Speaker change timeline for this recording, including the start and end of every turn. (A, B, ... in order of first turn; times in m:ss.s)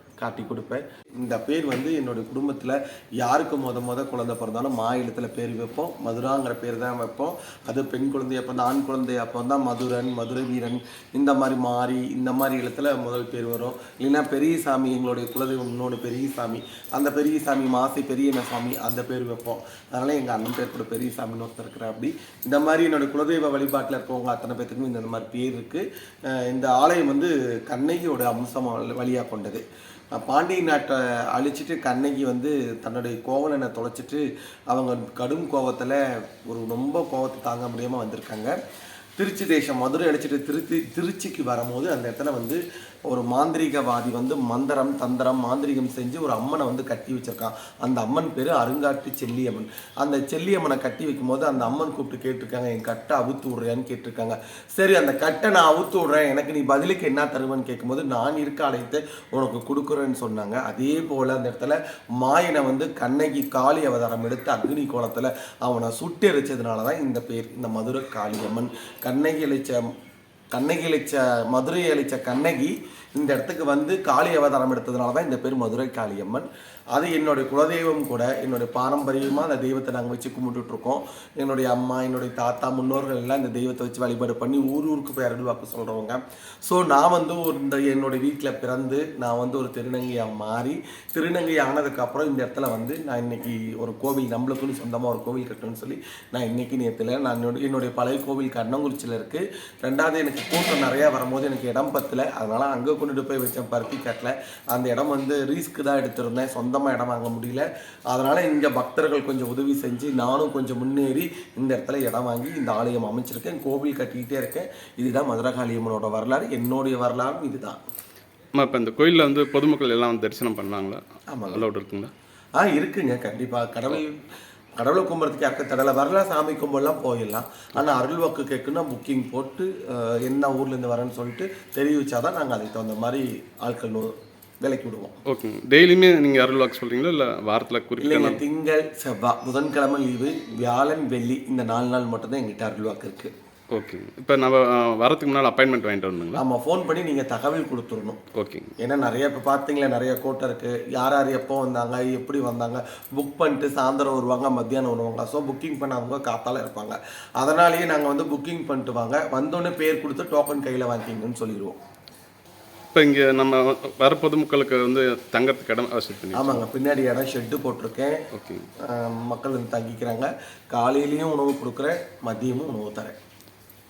0:00.2-0:29.6 A
0:30.1-0:38.6 A
0:39.2-1:09.8 A
1:10.5-1:57.8 A
1:58.6-2:02.1 B
2:01.3-2:01.7 A
2:02.6-2:04.2 A
2:04.8-2:15.2 A
2:15.3-2:18.4 B
2:18.0-2:23.3 A
2:23.7-2:26.4 B
2:26.4-2:28.2 A
2:28.4-2:28.7 B
2:28.8-2:41.8 A
2:43.0-2:46.6 B
2:46.3-2:48.2 A
2:48.3-2:48.7 B
2:48.8-2:53.2 A